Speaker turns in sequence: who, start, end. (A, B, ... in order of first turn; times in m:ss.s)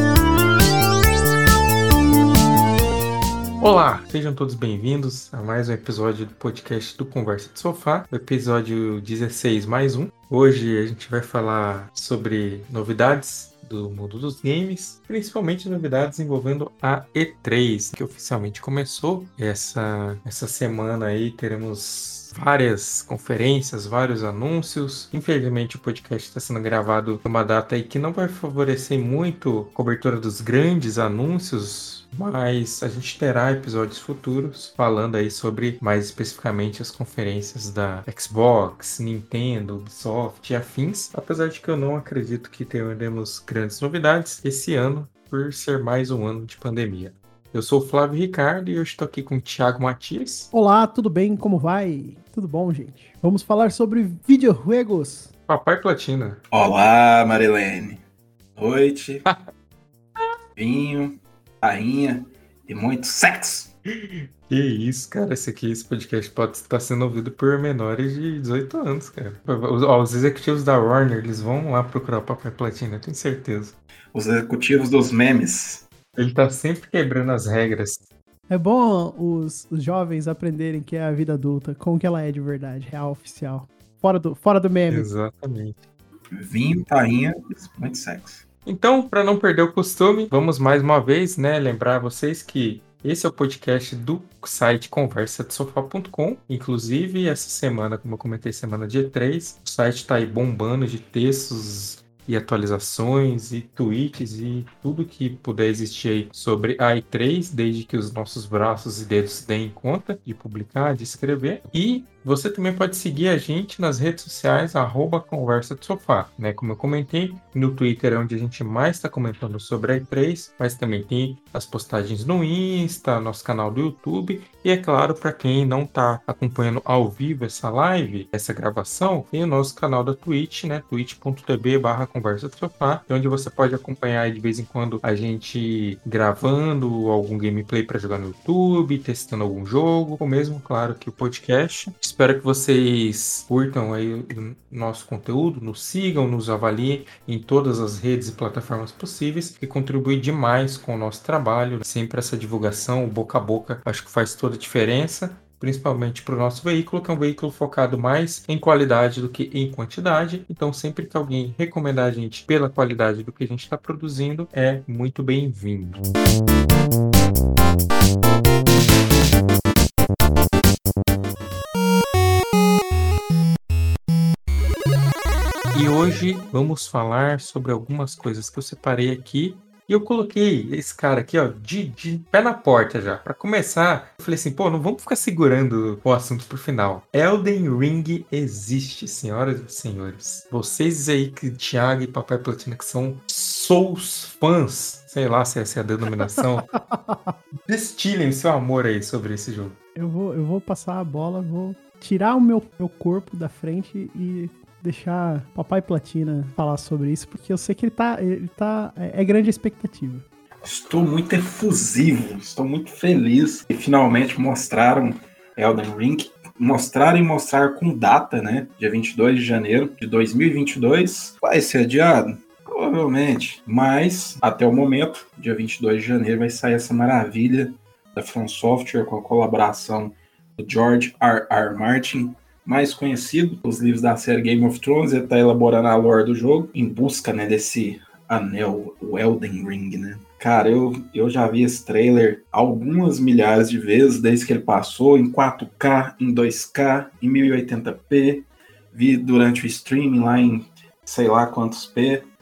0:03.6-0:50.5 A
0:50.5-0:55.3 B
0:55.5-0:56.4 A
0:56.5-0:58.0 C
0:58.6-0:59.2 C
1:00.6-1:03.7 C
1:04.0-1:13.8 A
1:14.1-1:15.9 C
1:16.2-1:18.0 A
1:18.5-1:25.1 B
1:24.9-1:25.8 A
1:26.3-1:28.4 C
1:28.6-2:46.0 A
2:55.7-3:16.7 A
3:16.8-3:17.3 B
3:17.7-3:19.8 A
3:20.0-3:30.2 B
3:30.6-4:12.3 C